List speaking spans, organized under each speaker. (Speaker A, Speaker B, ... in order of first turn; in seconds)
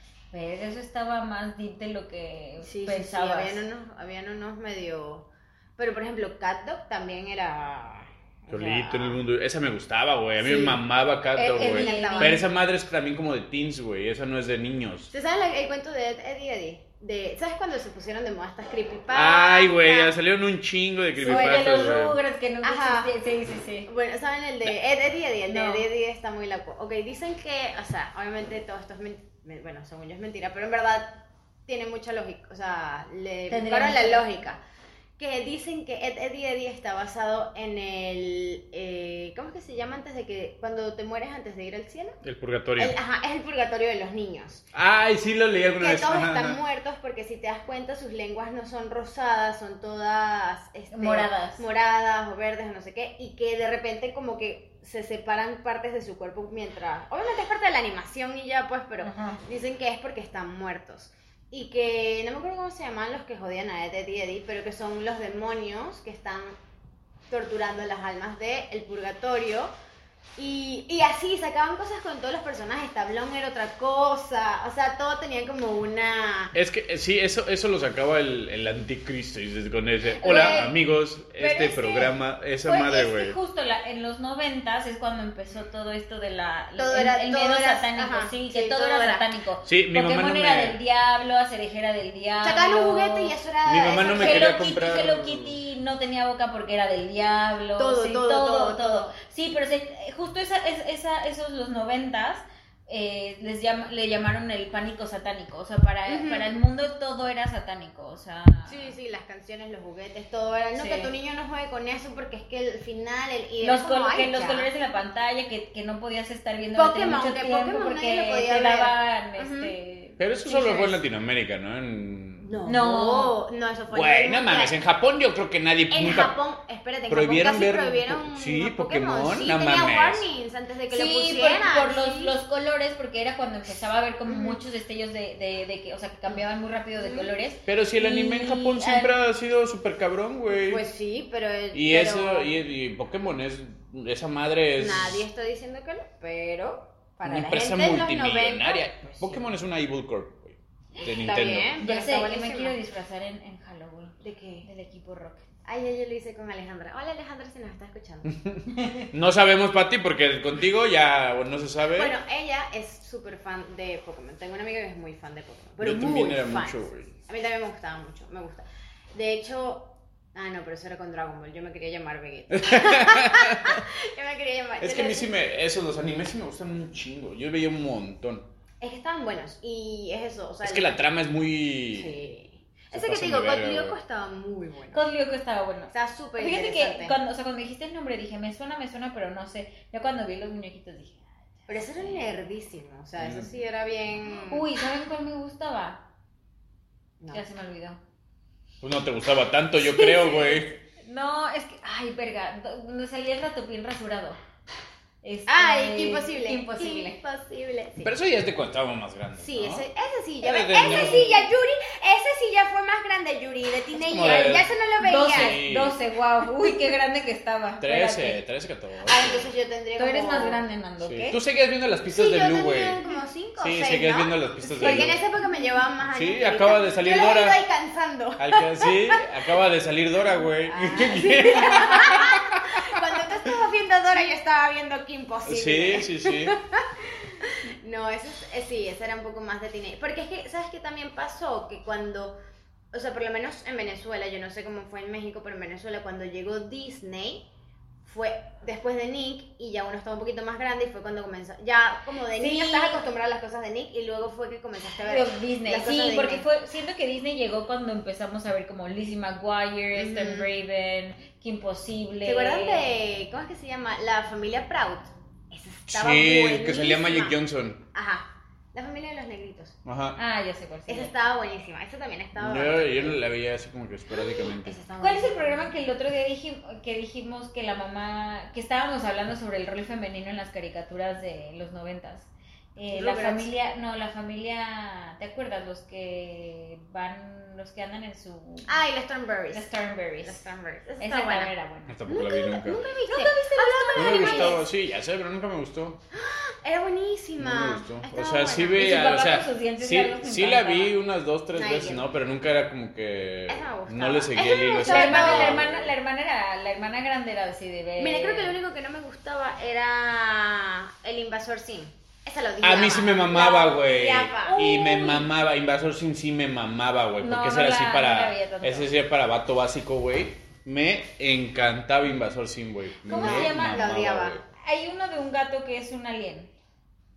Speaker A: 0.3-3.6, 11.4-12.4, 21.2-23.9, 25.5-25.8, 33.5-34.3, 50.9-51.6, 59.0-59.4, 80.2-80.7, 81.4-82.1, 82.6-93.3, 94.2-108.9, 110.7-111.1, 113.6-121.0, 122.7-123.3, 130.9-139.1, 151.8-155.4, 158.8-159.0, 184.9-192.2, 194.5-196.0, 197.3-198.0, 201.0-204.4, 205.2-207.2, 210.9-211.3, 215.0-218.4, 220.0-221.4, 224.8-225.2, 252.4-253.0, 255.0-262.9, 270.1-271.1, 275.0-288.7, 289.5-290.4, 291.0-292.0, 293.0-294.6, 298.7-300.9, 304.8-308.5, 314.5-315.2, 317.2-318.9, 323.1-323.9, 324.6-326.5
Speaker B: 2.6-9.2, 10.4-10.8, 11.4-12.4, 15.1-20.1, 21.2-21.9, 22.6-23.1, 23.9-34.6, 35.2-42.2, 42.8-44.6, 45.8-66.5, 67.3-69.7, 70.4-76.5, 80.2-80.7, 86.8-89.2, 92.4-94.6, 97.8-99.1, 106.1-106.5, 108.7-114.7, 116.7-119.7, 122.4-124.8, 125.9-132.4, 134.2-134.6, 136.9-137.3, 140.6-142.5, 144.8-149.4, 151.0-152.8, 154.2-154.7, 155.6-158.3, 161.9-175.3, 178.8-181.0, 181.9-185.0, 185.9-187.2, 191.7-194.7, 199.8-200.6, 205.5-208.1, 209.4-215.6, 219.1-220.6, 222.1-229.2, 230.6-242.3, 242.9-247.5, 248.0-256.4, 259.9-260.5, 262.2-267.4, 267.9-269.8, 270.9-273.2, 274.1-275.7, 282.9-283.5, 288.7-289.7, 290.2-291.5, 292.1-294.6, 296.1-299.0, 301.5-302.1, 303.5-305.8, 308.0-314.6, 323.1-324.4
Speaker C: 8.5-15.1, 19.1-22.2, 42.2-43.0, 44.7-46.6, 76.5-83.4, 89.6-90.8, 93.6-95.6, 120.2-122.5, 123.9-126.3, 127.1-130.2, 137.7-140.8, 141.7-145.2, 147.2-151.7, 158.2-162.1, 165.8-167.1, 172.5-173.8, 174.8-178.5, 180.6-182.2, 182.9-184.0, 193.2-193.5, 198.8-200.8, 208.0-209.8, 210.4-211.5, 213.9-214.7, 215.3-215.9, 217.8-219.5, 221.0-223.0, 223.6-225.2, 226.1-227.6, 228.4-232.9, 235.4-236.6, 265.9-267.8, 269.8-270.2, 272.4-274.8, 291.9-292.8, 293.9-296.0, 297.4-305.9, 312.6-324.4